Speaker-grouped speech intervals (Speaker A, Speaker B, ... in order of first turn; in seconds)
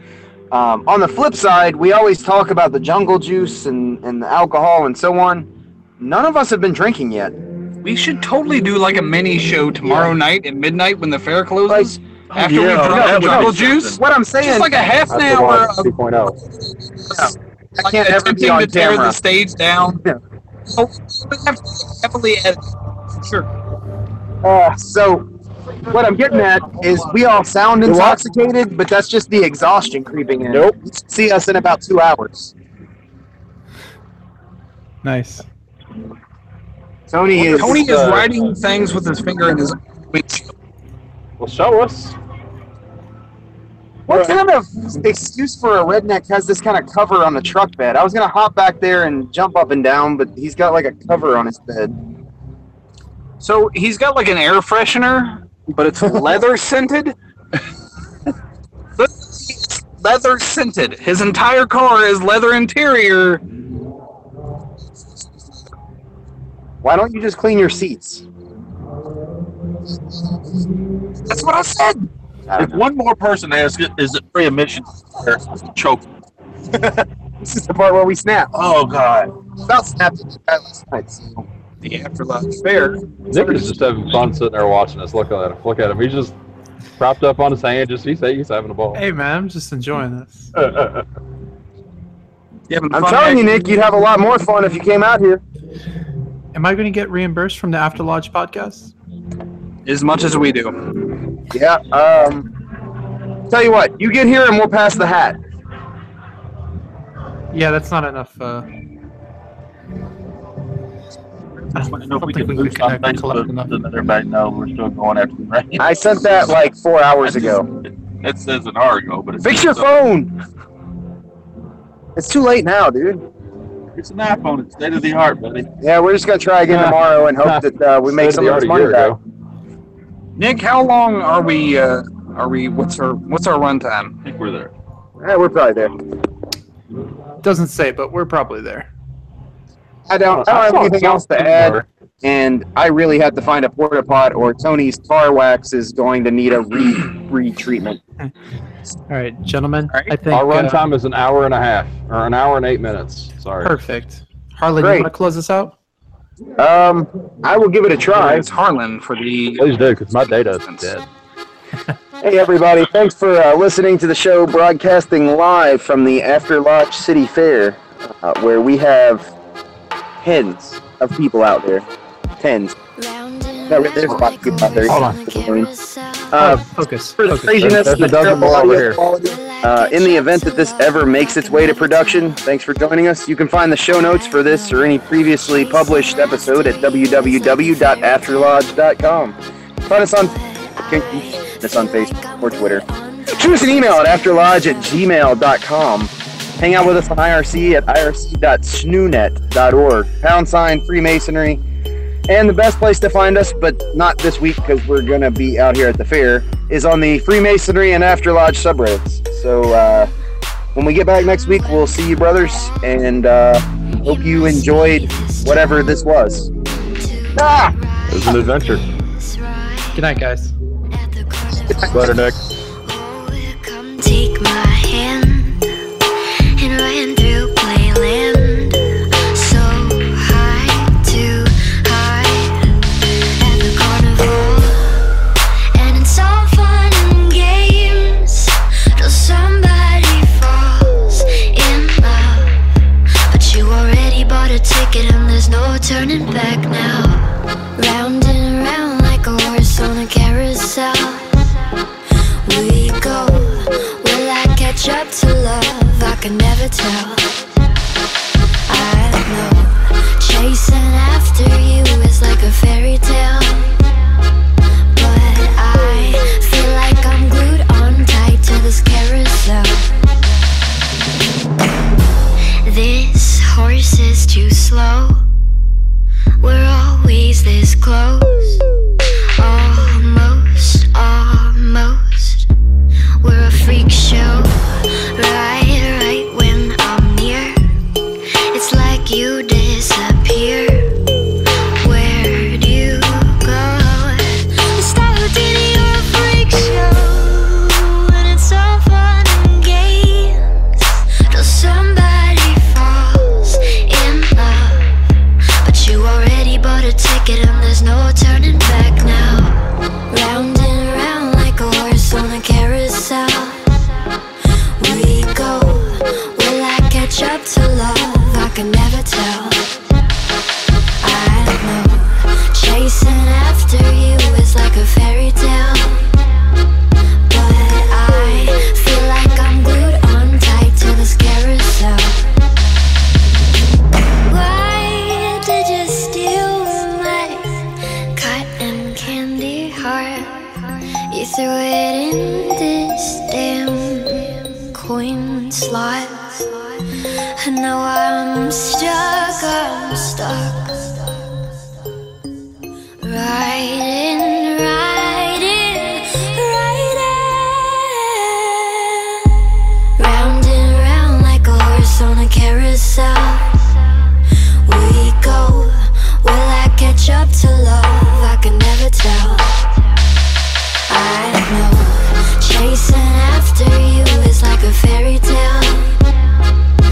Speaker A: 0.5-7.3, 9.8-10.1, 11.7-11.9, 12.9-14.7, 17.1-19.2, 24.4-25.3, 25.9-32.5, 37.1-37.9, 44.1-52.0, 66.8-68.2, 72.5-72.8, 76.7-78.5, 79.6-81.5, 92.9-95.4, 101.5-102.5, 103.5-105.4, 115.8-117.7, 119.4-120.3, 122.2-123.2, 125.8-129.2, 135.2-135.9, 140.1-148.0, 154.8-155.1, 156.6-158.5, 162.2-169.3, 170.2-171.8, 172.4-172.8, 173.7-175.7, 176.3-189.3, 189.9-190.3, 190.9-201.6, 202.3-210.1, 210.7-216.5, 217.3-217.7
Speaker B: 7.8-15.9, 17.0-17.3, 17.8-20.0, 20.7-22.6, 23.2-23.5, 37.5-40.5, 53.4-57.1, 59.0-63.4, 71.3-72.1, 81.8-83.8, 92.7-93.4, 99.8-100.8, 130.3-134.1, 158.1-160.9
Speaker C: 12.3-14.0, 72.5-76.0, 78.5-79.3, 111.7-116.6, 117.2-119.8, 124.0-125.7, 134.2-134.7
Speaker D: 15.1-16.4, 27.8-28.2, 30.5-30.8, 37.4-38.3, 41.4-42.1, 83.3-86.3, 87.0-89.0, 90.5-91.0, 126.7-129.2, 140.3-141.8, 150.3-153.8, 159.6-161.1, 174.9-175.2, 177.5-179.0, 218.1-218.8, 221.9-222.4
Speaker E: 35.0-35.4, 88.9-90.5, 96.5-98.9, 107.5-108.7, 111.7-113.7, 137.4-138.9, 149.1-150.8, 153.6-155.7, 176.3-178.1, 219.9-220.5
Speaker F: 172.9-176.6, 178.1-183.1, 183.8-189.0, 189.9-195.1, 211.1-213.1, 213.9-216.1, 216.9-220.2, 220.9-225.6, 226.6-232.7, 233.4-235.1, 235.7-242.6, 243.3-251.5, 252.4-257.5, 258.7-263.9, 264.9-269.9, 272.6-275.2, 276.4-278.6, 279.4-282.5, 283.2-287.6, 288.5-290.9, 291.8-305.0, 305.6-309.6, 310.1-314.3, 314.8-319.9, 321.0-326.2, 327.3-332.3, 334.3-346.8, 347.4-351.5, 353.0-359.2, 360.0-369.8, 370.9-376.2